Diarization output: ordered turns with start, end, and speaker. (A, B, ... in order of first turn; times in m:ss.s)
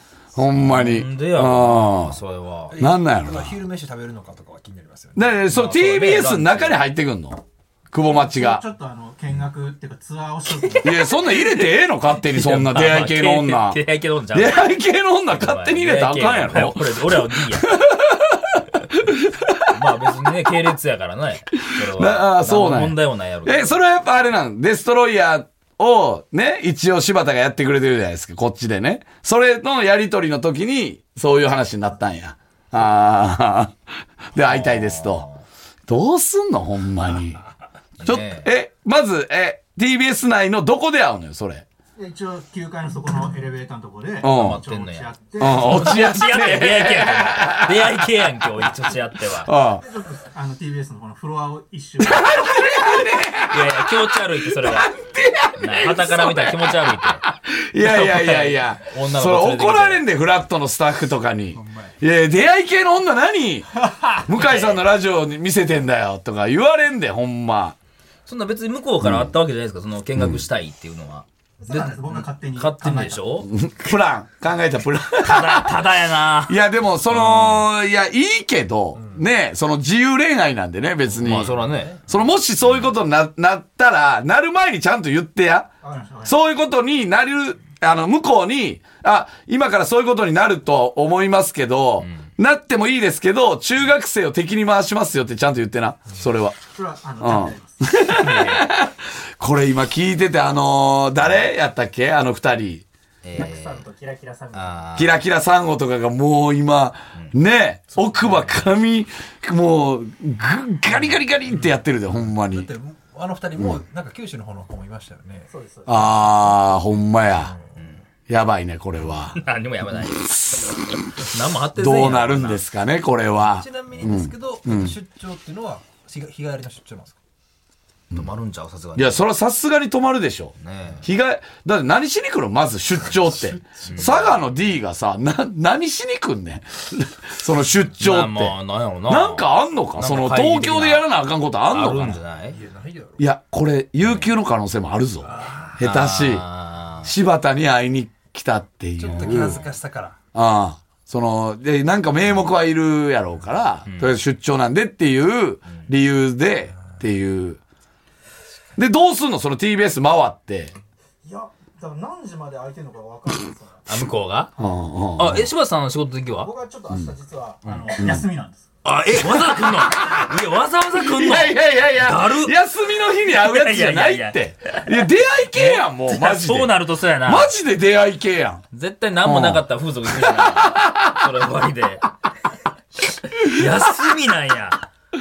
0:00.3-0:02.2 A
0:00.6-0:02.8 B
0:02.7-0:05.3 C
0:02.8-0:03.6 A
0:05.2-0:08.6 A
0:05.5-0:06.8 B
0:08.0-0:11.1 D
0:10.7-0:11.7 B
0:10.8-0:13.8 A
0:12.2-0:14.7 B
0:14.3-0:19.7 A
0:15.3-0:17.8 B
0:19.7-0:23.8 B
0:21.7-0:33.8 A
0:34.3-0:35.3 A
0:34.4-0:35.4 B
0:35.9-0:37.4 A
0:38.0-0:38.5 B
0:38.0-0:41.6 A
0:42.0-0:46.0 D
0:44.2-0:44.6 A
0:44.2-0:49.5 B
0:45.4-0:48.6 A
0:49.3-0:49.8 A
0:49.8-0:52.7 D
0:52.0-1:07.8 A
0:53.5-0:54.9 B
0:55.6-0:57.2 B
0:57.8-1:00.0 B
1:01.5-1:02.0 C
1:04.3-1:04.8 B
1:08.2-1:11.2 B
1:09.0-1:09.3 A
1:11.6-1:13.2 D
1:11.8-1:13.5 B
1:13.5-1:15.8 A
1:15.2-1:16.6 B
1:16.5-1:25.7 A
1:17.1-1:17.6 B
1:21.2-1:22.0 B
1:25.8-1:26.4 D
1:26.2-1:36.6 A
1:32.0-1:32.3 B
1:36.7-1:37.9 D
1:37.2-1:42.8 A
1:38.1-1:38.7 B
1:43.2-1:43.8 B
1:43.3-1:44.8 D
1:44.5-1:45.2 B
1:45.0-1:52.7 A
1:52.4-1:55.5 C
1:55.5-1:56.3 D
1:55.8-1:57.5 A
1:58.3-1:59.4 A
1:59.3-2:02.6 B
1:59.9-2:05.0 A
2:03.4-2:07.2 C
2:08.1-2:09.2 B
2:09.0-2:18.5 A
2:10.6-2:11.1 B
2:13.2-2:14.1 C
2:13.8-2:14.3 B
2:18.0-2:21.0 B
2:19.1-2:22.2 A
2:21.7-2:22.6 B
2:22.5-2:23.2 C
2:23.2-2:26.5 A
2:25.2-2:25.8 C
2:25.8-2:27.1 B
2:27.0-2:29.6 A
2:29.0-2:30.2 C
2:30.3-2:37.6 A
2:33.8-2:34.1 B
2:38.8-2:40.7 A
2:41.2-2:43.8 D
2:43.8-2:44.5 B
2:44.6-2:45.4 A
2:45.2-2:46.5 B
2:46.4-2:48.7 D
2:48.0-2:48.2 A
2:48.8-2:52.5 B
2:49.3-2:50.2 A
2:50.9-2:58.6 A
2:53.2-2:57.5 B
2:58.7-3:02.1 B
2:59.2-3:01.3 A
3:03.0-3:04.8 B